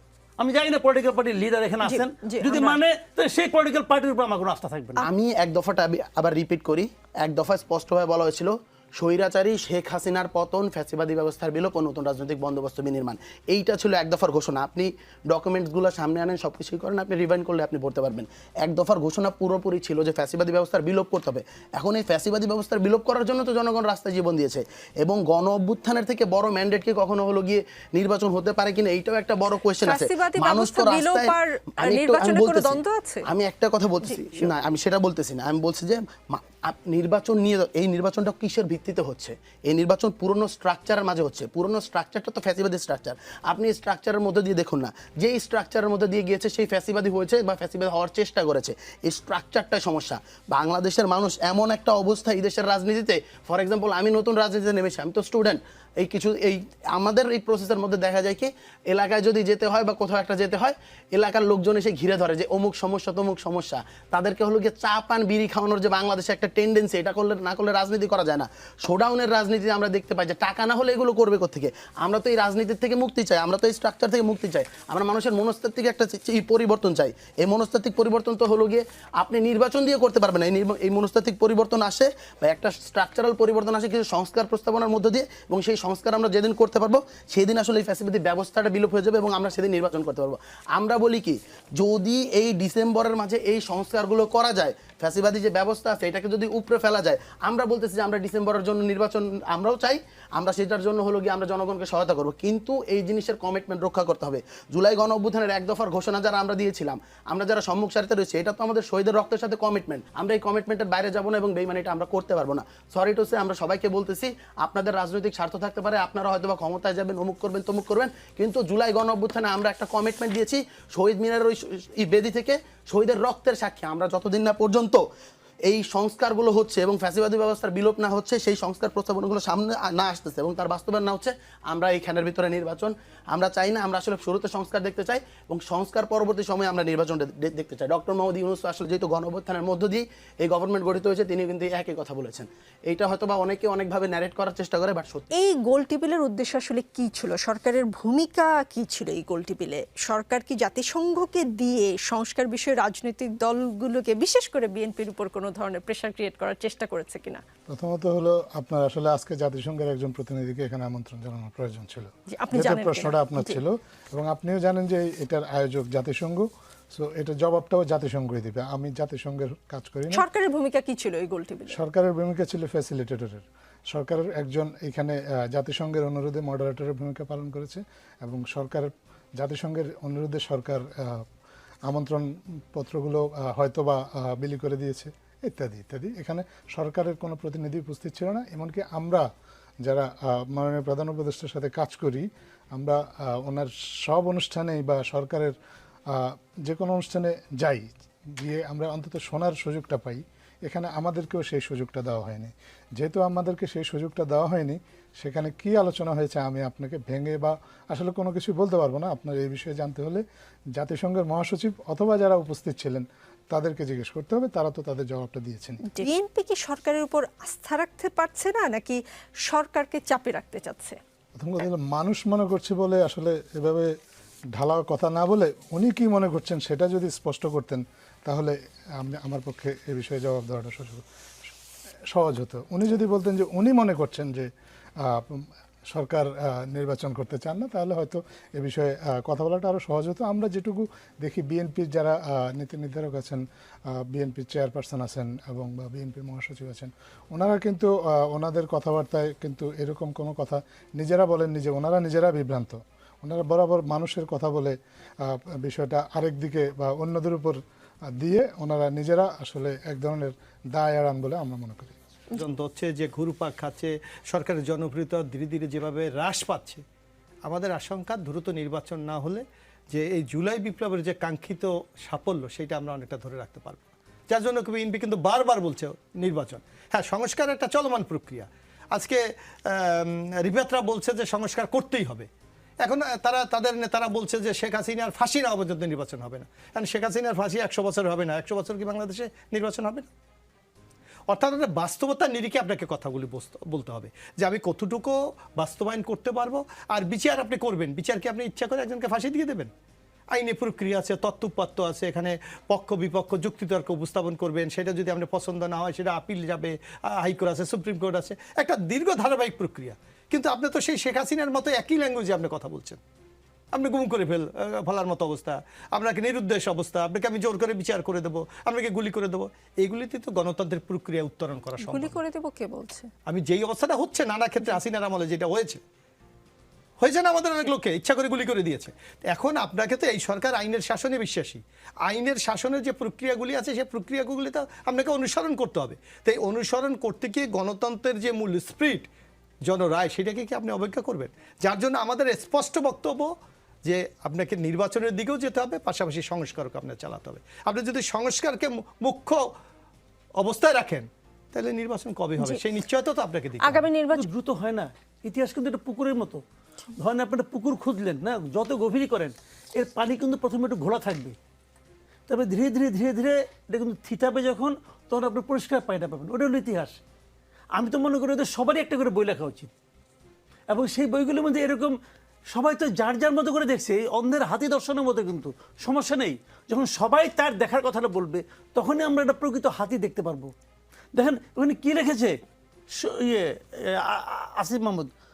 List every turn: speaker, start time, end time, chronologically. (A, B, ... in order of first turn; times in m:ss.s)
0:00.4-0:05.0 A
0:01.8-0:02.8 B
0:05.0-2:05.0 C
0:29.8-0:33.3 B
0:34.0-0:34.4 B
2:05.6-2:25.3 C
2:25.3-2:37.4 B
2:37.7-2:50.2 D
2:42.3-2:43.6 B
2:50.1-2:51.8 B
2:51.7-3:01.2 D
3:01.9-3:09.2 D
3:09.8-3:15.6 D
3:16.1-3:30.2 D
3:30.7-3:35.8 D
3:35.9-3:41.0 B
3:41.3-3:44.0 D
3:44.5-3:51.0 D
3:52.1-3:54.5 D
3:55.0-4:03.4 D
4:04.0-4:17.6 D
4:18.2-4:21.9 D
4:22.4-4:26.8 E
4:27.4-4:42.3 E
4:42.8-4:50.1 E
4:51.3-4:59.7 E
5:00.3-5:13.0 E
5:13.7-5:22.2 E
5:21.8-5:23.1 B
5:23.3-5:25.8 E
5:27.0-5:39.1 E
5:39.6-5:43.3 E
5:43.8-5:49.4 E
5:50.4-5:53.9 E
5:52.4-5:52.6 B
5:53.6-5:54.3 B
5:54.1-5:56.4 A
5:57.0-6:01.3 A
6:02.3-6:07.0 A
6:07.7-6:09.7 A
6:10.7-6:11.9 A
6:12.5-6:20.5 A
6:21.1-6:22.3 A
6:23.0-6:25.1 A